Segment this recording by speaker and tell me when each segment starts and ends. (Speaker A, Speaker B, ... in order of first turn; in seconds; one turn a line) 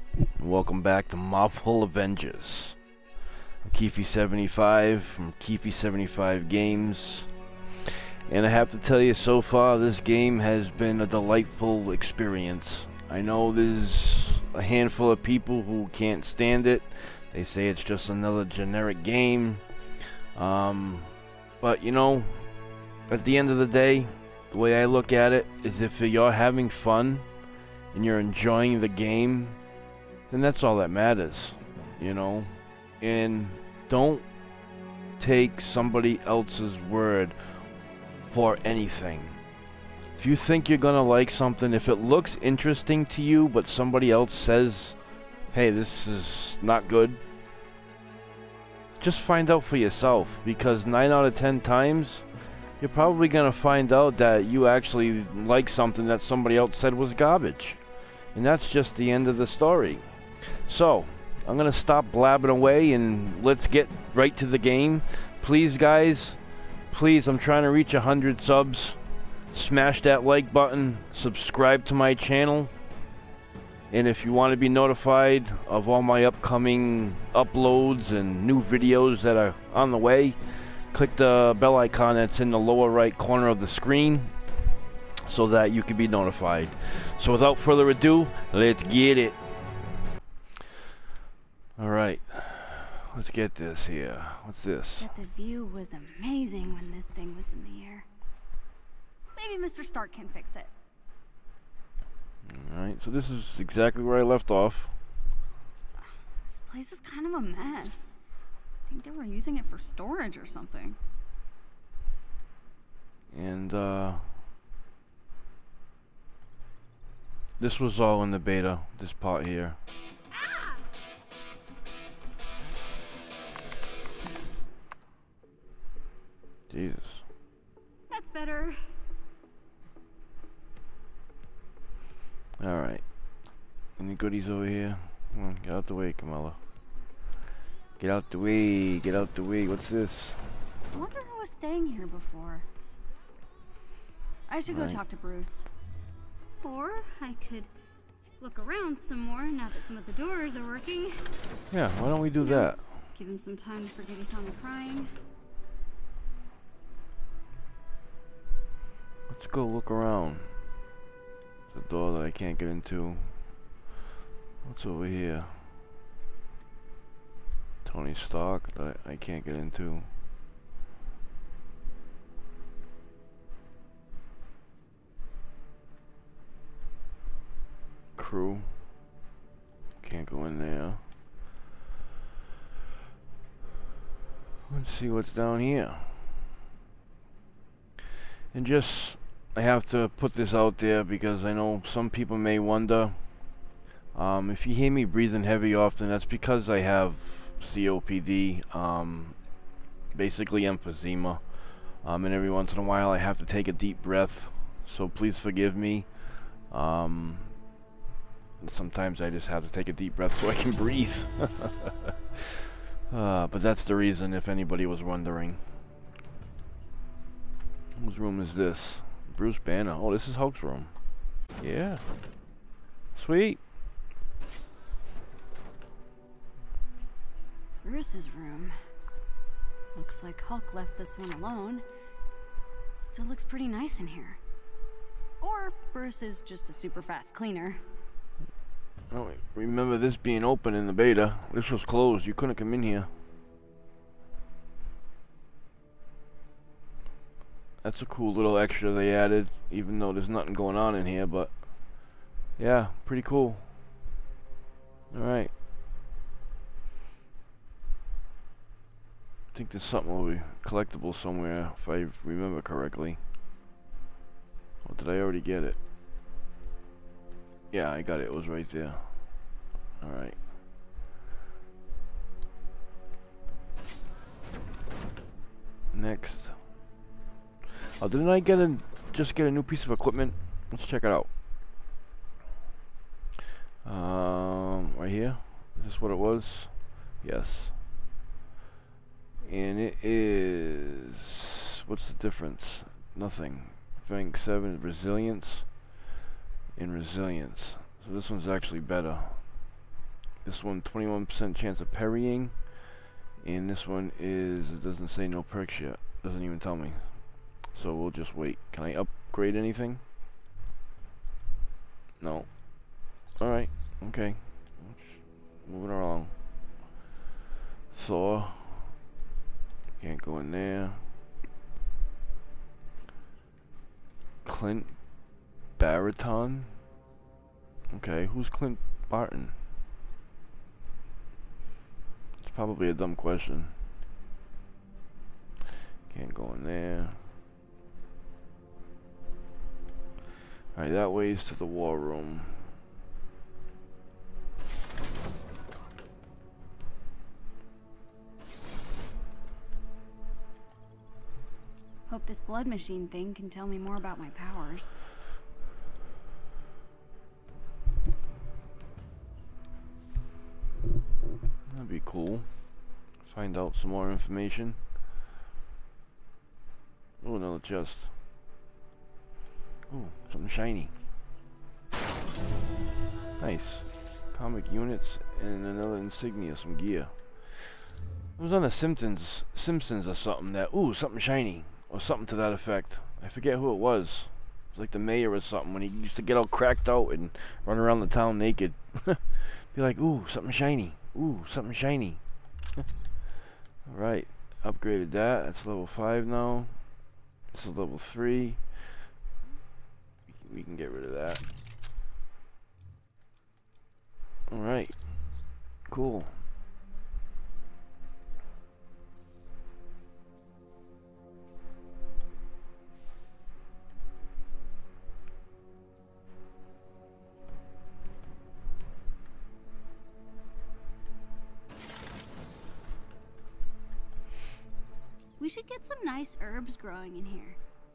Speaker A: 0.4-2.8
Speaker A: 3.6-7.3
Speaker A: 7.8-19.6
Speaker A: 20.3-22.5
Speaker A: 23.1-27.2
Speaker A: 27.9-29.6
Speaker A: 30.3-34.3
Speaker A: 35.2-37.4
Speaker A: 38.3-39.4
Speaker A: 40.2-45.0
Speaker A: 45.5-47.2
Speaker A: 49.0-52.2
Speaker A: 52.8-57.8
Speaker A: 58.3-60.0
Speaker A: 60.6-66.4
Speaker A: 66.9-69.0
Speaker A: 69.5-72.7
Speaker A: 73.9-84.3
Speaker A: 85.3-89.4
Speaker A: 91.8-95.1
Speaker B: 95.0-98.0
Speaker B: 99.3-100.7
Speaker A: 102.4-104.9
Speaker B: 106.0-108.1
Speaker B: 108.9-111.0
Speaker A: 113.3-114.4
Speaker A: 117.6-119.8
Speaker B: 120.4-120.8
Speaker A: 126.7-127.2
Speaker B: 128.1-128.8
Speaker A: 132.6-133.0
Speaker A: 134.0-136.6
Speaker A: 138.0-140.4
Speaker B: 140.9-142.7
Speaker B: 144.5-145.7
Speaker A: 144.7-145.0
Speaker B: 146.6-147.7
Speaker B: 148.4-151.2
Speaker A: 151.7-152.8
Speaker B: 152.4-155.1
Speaker A: 159.3-160.5
Speaker A: 161.7-163.3
Speaker A: 164.6-165.7
Speaker A: 167.8-170.1
Speaker A: 178.2-178.7
Speaker A: 180.0-181.0
Speaker A: 184.7-186.4
Speaker A: 188.5-193.2
Speaker A: 194.1-199.4
Speaker A: 200.1-201.4
Speaker A: 202.0-206.1
Speaker A: 206.7-207.5
Speaker A: 208.6-215.7
Speaker A: 217.9-220.9
Speaker A: 221.6-222.0
Speaker A: 223.1-223.6
Speaker B: 227.8-228.8
Speaker B: 229.9-231.8
Speaker B: 233.0-234.4
Speaker B: 235.4-237.8
Speaker A: 239.1-243.1
Speaker A: 247.8-251.6
Speaker A: 252.6-253.7
Speaker A: 255.1-255.5
Speaker A: 259.5-263.2
Speaker A: 264.8-265.8
Speaker A: 267.7-269.1
Speaker A: 270.0-270.4
Speaker A: 275.9-276.6
Speaker A: 278.0-281.3
Speaker A: 283.8-287.7
Speaker A: 289.4-295.7
Speaker A: 296.8-299.4
Speaker A: 300.4-302.6
Speaker A: 303.4-307.1
Speaker A: 307.7-310.0
Speaker A: 312.2-312.5
Speaker A: 313.4-316.3
Speaker A: 317.9-318.9
Speaker A: 320.0-321.0
Speaker A: 324.4-324.9
Speaker A: 325.8-326.8
Speaker A: 327.9-329.5
Speaker A: 332.4-333.7
Speaker A: 336.1-337.2
Speaker A: 340.7-342.7
Speaker B: 352.1-354.9
Speaker A: 361.7-362.5
Speaker A: 363.2-364.8
Speaker A: 367.2-368.1
Speaker A: 369.9-370.9
Speaker A: 373.4-377.8
Speaker A: 378.4-392.2
Speaker A: 393.9-396.8
Speaker A: 397.5-398.6
Speaker A: 400.3-401.4
Speaker A: 404.5-404.9
Speaker A: 405.9-406.4
Speaker B: 425.4-427.6